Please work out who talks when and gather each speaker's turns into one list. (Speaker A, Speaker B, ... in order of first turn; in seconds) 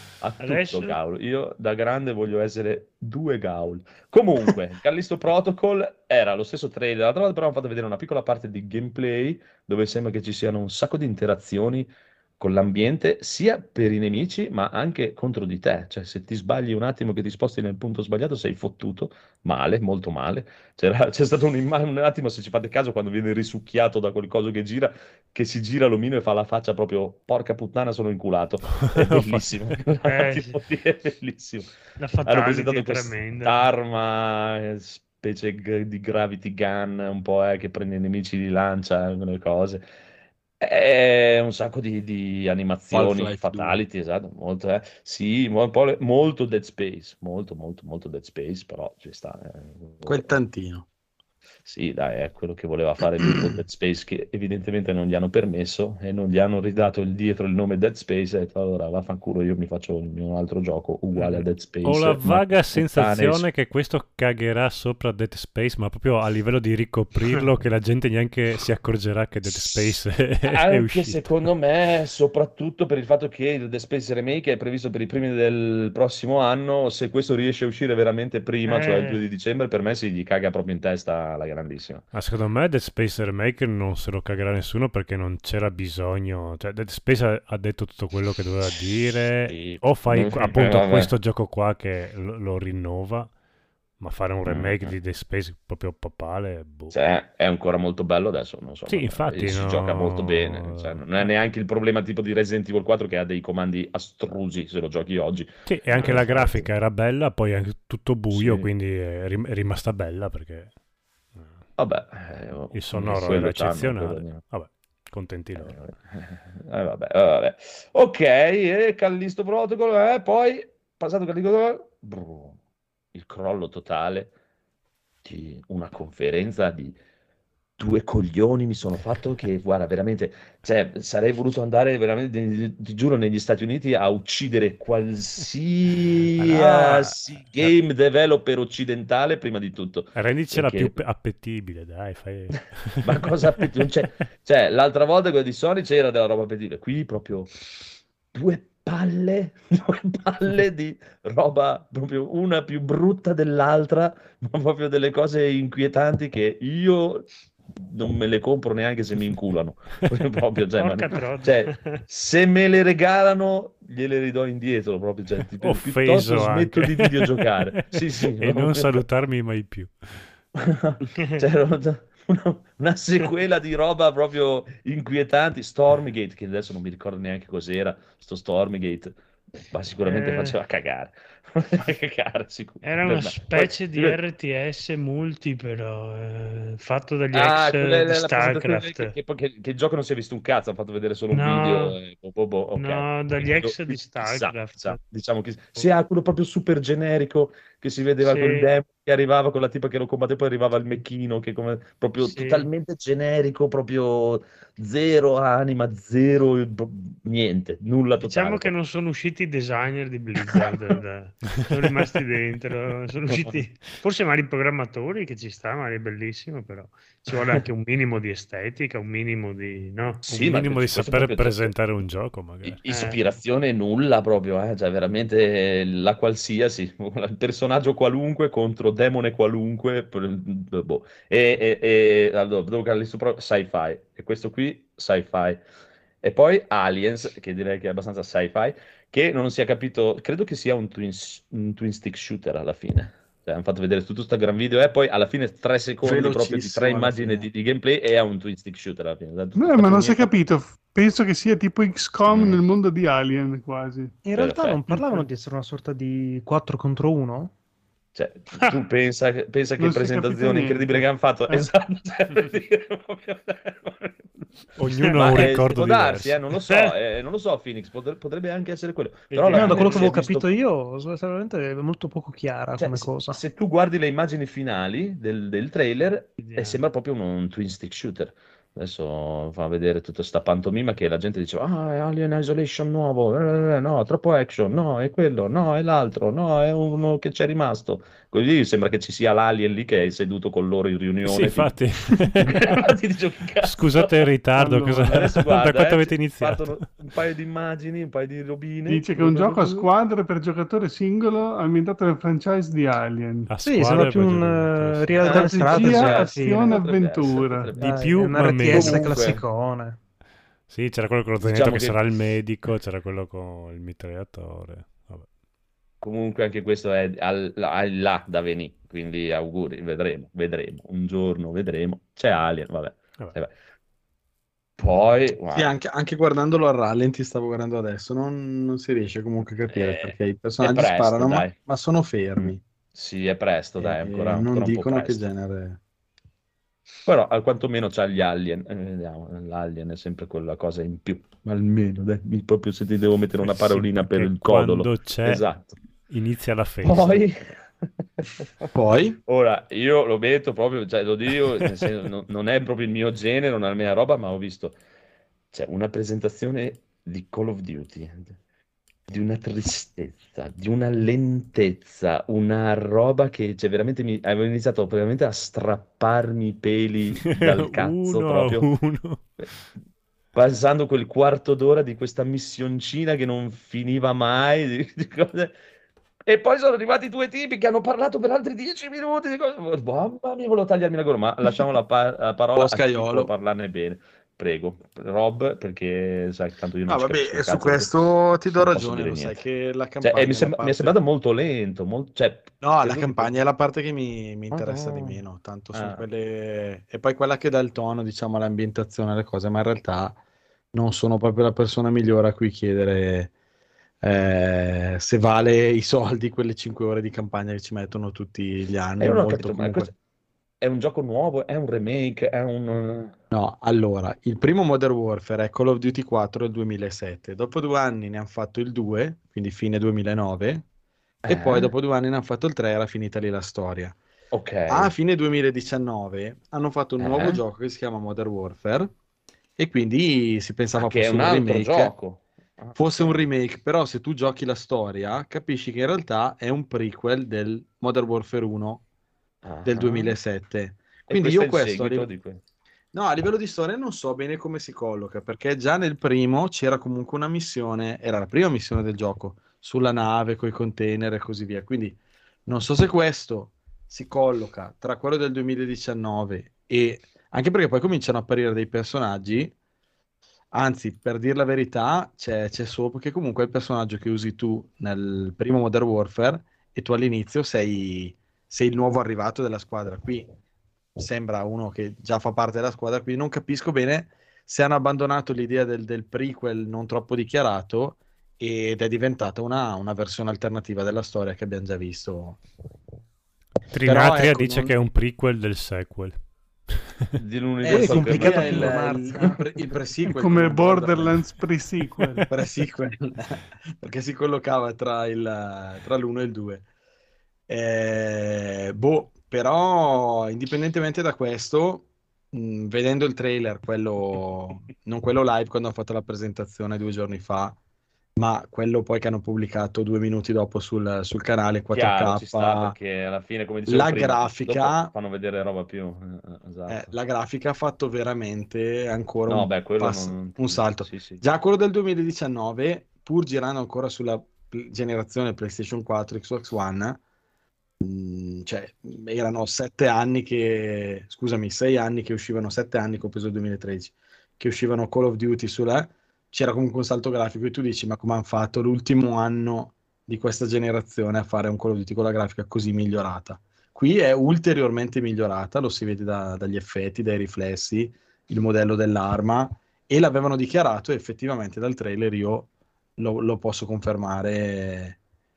Speaker A: 0.2-11.9, 12.4-31.7, 32.2-39.9, 40.6-50.3, 51.6-63.5, 69.4-82.1, 89.5-91.1, 94.4-95.0, 96.9-106.7, 108.3-108.7, 111.8-114.5, 115.6-122.6, 123.1-124.3, 125.2-127.0, 127.8-141.0, 143.0-147.5, 148.3-169.0, 170.6-179.2, 179.7-184.2, 187.3-208.7, 210.5-210.7, 220.3-221.7, 222.6-235.6, 236.2-250.3, 252.3-252.6, 254.3-254.8, 258.1-264.3, 265.0-270.5, 272.8-294.1, 295.1-299.9, 305.2-309.4, 311.4-312.1, 316.0-323.5, 324.8-325.7, 329.7-331.6, 332.4-335.2, 337.0-345.7, 346.8-347.7, 348.2-348.7, 349.2-354.8, 355.5-358.4, 359.1-368.7, 370.3-375.6, 376.3-387.9, 388.5-389.4, 390.0-393.4, 394.5-395.2, 395.7-396.0, 409.0-409.9, 410.6-413.1, 421.2-421.7, 424.3-424.9, 427.0-427.4, 430.8-433.2, 439.4-440.1, 441.1-442.4, 487.2-488.9, 511.7-516.9, 519.3-521.2
Speaker B: 0.4-1.0, 30.0-30.6, 32.0-33.7, 78.7-79.2, 160.8-162.0, 180.0-180.6, 182.8-189.1, 191.3-191.9, 192.7-195.0, 198.2-198.7, 202.2-202.7, 208.2-220.2, 222.9-223.2, 264.9-265.5, 266.7-266.9, 269.3-270.1, 276.4-276.8
Speaker C: 28.8-29.5, 61.2-71.4, 82.1-93.3, 94.0-96.9, 98.9-101.3, 105.7-110.7, 111.3-111.6, 112.7-115.8, 136.4-137.7, 140.1-143.9, 165.6-170.3, 220.3-222.8, 264.8-266.4, 291.2-292.7, 293.6-296.9, 303.5-305.4, 307.8-309.4, 310.7-315.3, 343.4-345.5, 346.1-347.2, 367.2-369.3, 483.7-486.2, 486.8-487.2
Speaker D: 42.9-43.8, 50.0-50.9, 246.0-247.5, 325.5-332.6, 333.8-335.8, 348.7-349.2, 382.6-383.3, 386.9-391.0, 392.6-400.2, 400.7-403.3, 404.0-409.9, 413.3-420.6, 421.3-424.0, 424.7-428.9, 429.6-431.9, 432.8-438.8, 439.6-442.1, 442.9-459.5, 460.5-470.2, 470.9-482.4, 483.9-484.7, 487.6-491.2, 492.3-496.6, 497.5-507.6, 508.1-512.8, 513.7-514.9, 516.7-527.0, 527.8-555.0
Speaker E: 249.5-254.2, 259.8-261.7, 294.6-295.2, 298.9-303.5, 305.2-307.7, 490.1-492.2
Speaker F: 254.2-257.5, 269.5-273.4, 303.6-306.7, 307.8-310.0, 487.6-489.4